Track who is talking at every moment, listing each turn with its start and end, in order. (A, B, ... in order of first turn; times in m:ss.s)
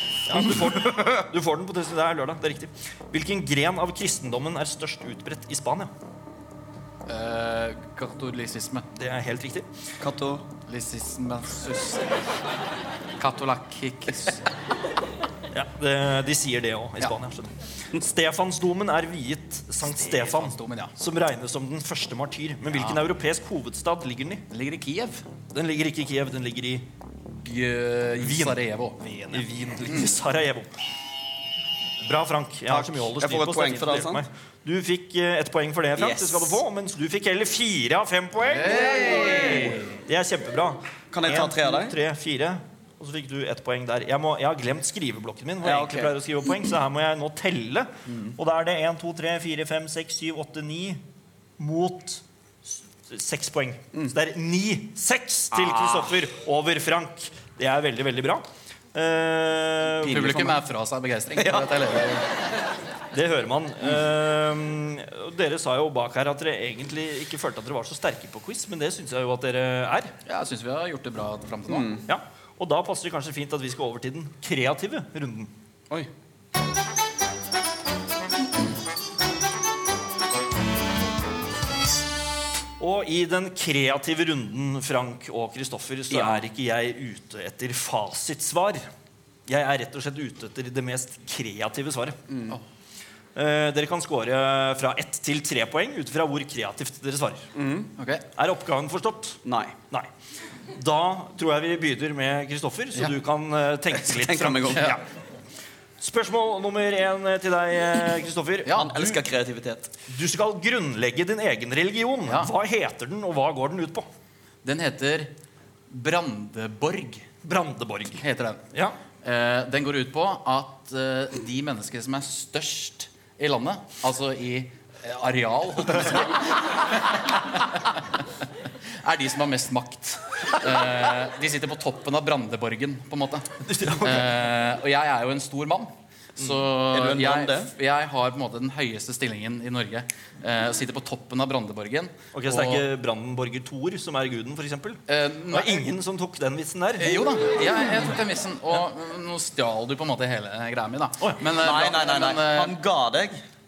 0:00.3-0:05.9 A
0:07.0-0:08.8 B
0:09.0-0:09.7 A
0:10.0-0:10.5 C
0:10.6-0:12.1 B
0:13.2-0:14.4 B
0:15.5-0:24.4 A
0:19.8-0:20.9 B
0:22.7-0:23.0 B
0:24.5-0:25.2 B
0:25.5-0:26.8 A
0:27.4-0:30.1 B
0:28.2-0:28.6 A
0:29.3-0:30.7 A
0:32.0-0:51.0 A
0:32.7-0:34.2 C
0:36.0-0:36.6 C
0:38.4-0:40.0 B
0:39.0-0:39.7 C
0:41.1-0:42.0 C
0:45.6-0:46.1 C
0:48.1-0:48.4 C
0:51.6-1:00.5 A
0:55.5-0:56.1 C
1:00.0-1:00.5 C
1:00.0-1:02.2 B
1:01.3-1:01.8 C
1:03.1-1:10.1 A
1:10.2-1:11.9 B
1:11.7-1:12.0 C
1:12.1-1:15.5 A
1:22.8-1:28.9 A
1:26.1-1:26.4 C
1:29.5-1:32.2 A
1:32.3-1:32.6 C
1:33.4-1:37.5 A
1:37.5-1:37.9 C
1:38.0-1:38.2 B
1:38.4-1:39.4 A
1:39.4-1:39.8 C
1:40.7-1:45.0 A
1:43.9-1:45.0 C
1:46.0-1:49.2 A
1:48.7-1:49.9 C
1:50.1-1:54.1 A
1:54.6-1:55.3 B
1:55.9-1:57.2 B
1:57.4-1:59.0 A
1:58.2-1:58.6 B
1:59.2-2:08.0 B
2:09.0-2:22.8 B
2:13.6-2:14.4 A
2:16.9-2:17.7 C
2:22.3-2:27.4 A
2:25.1-2:25.9 B
2:27.0-2:32.8 B
2:31.5-2:33.4 C